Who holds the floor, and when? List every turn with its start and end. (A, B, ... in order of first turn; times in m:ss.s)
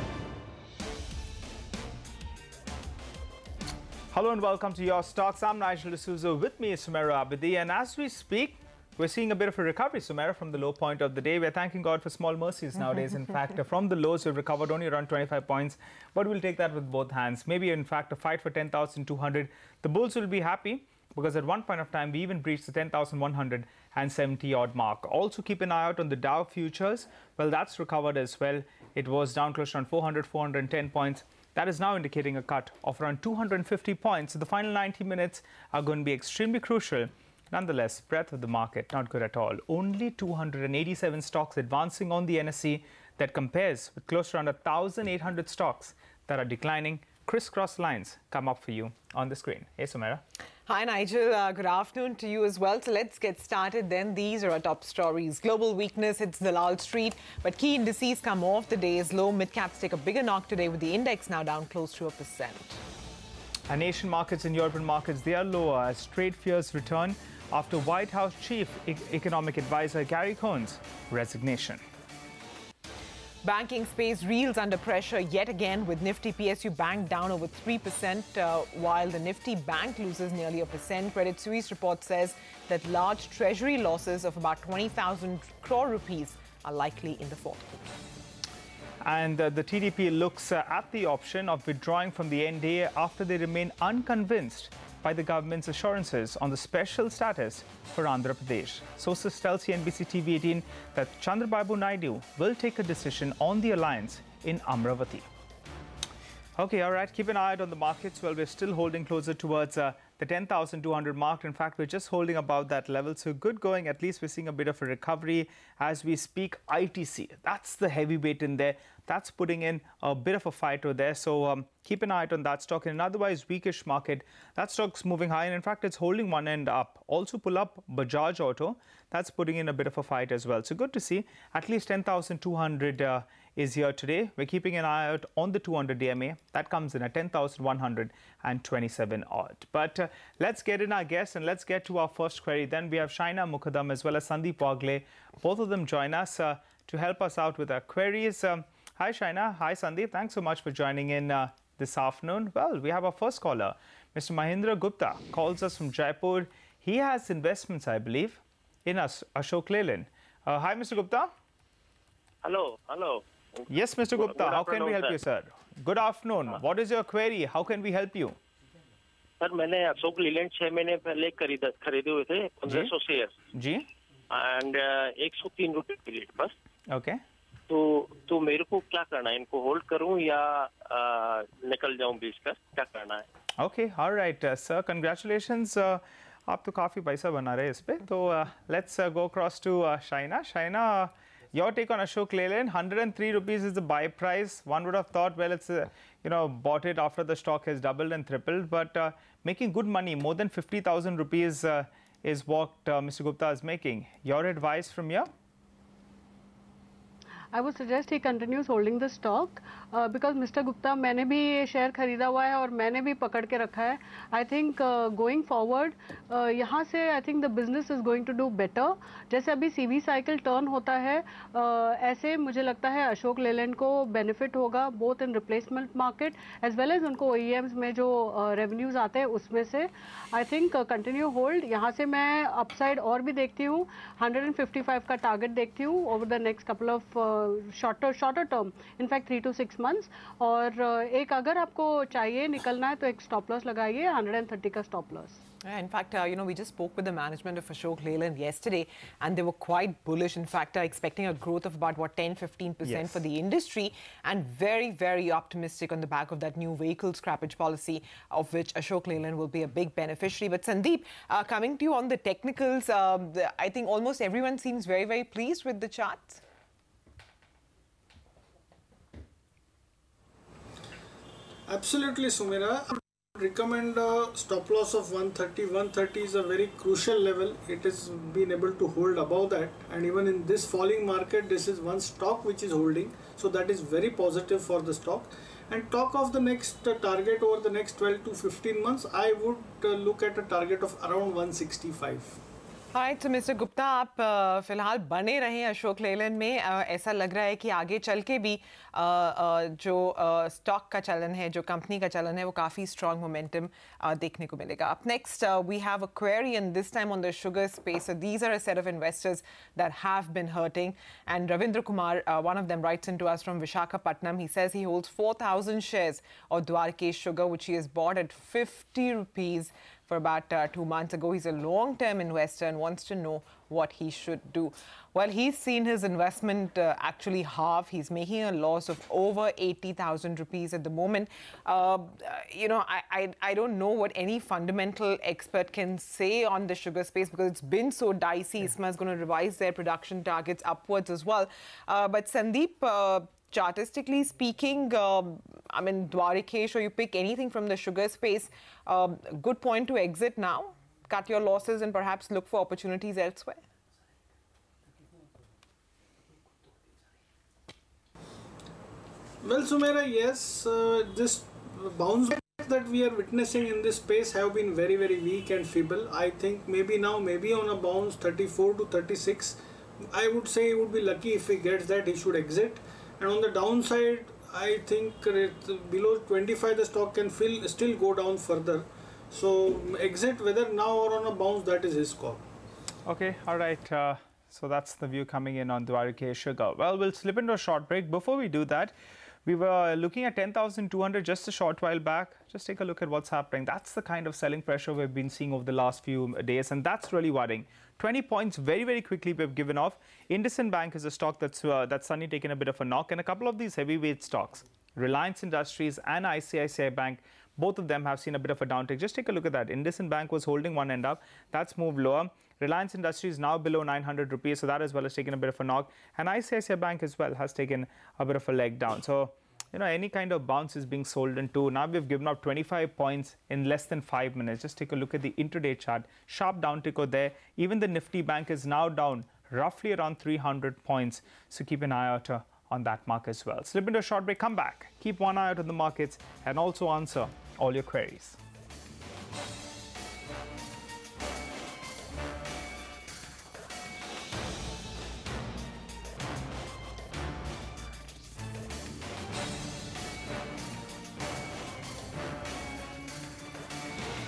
0:04.1-0:50.2 A
0:50.7-1:02.8 B
1:03.7-1:11.8 A
1:13.4-1:28.0 B
1:29.0-1:45.3 A
1:46.6-2:41.3 A
2:42.4-2:45.2 C
2:43.7-2:48.4 A
2:49.4-2:53.3 C
2:53.5-2:53.8 A
2:54.3-2:56.5 C
2:56.9-2:57.2 A
2:57.7-3:03.2 C
3:03.6-3:25.3 A
3:27.5-4:05.4 D
4:05.6-4:26.4 B
4:12.8-4:13.2 A
4:31.7-4:52.4 E
4:52.9-5:53.6 B
5:59.4-6:09.6 E
6:10.1-6:22.4 E
6:23.1-6:28.9 A
6:29.5-7:18.4 A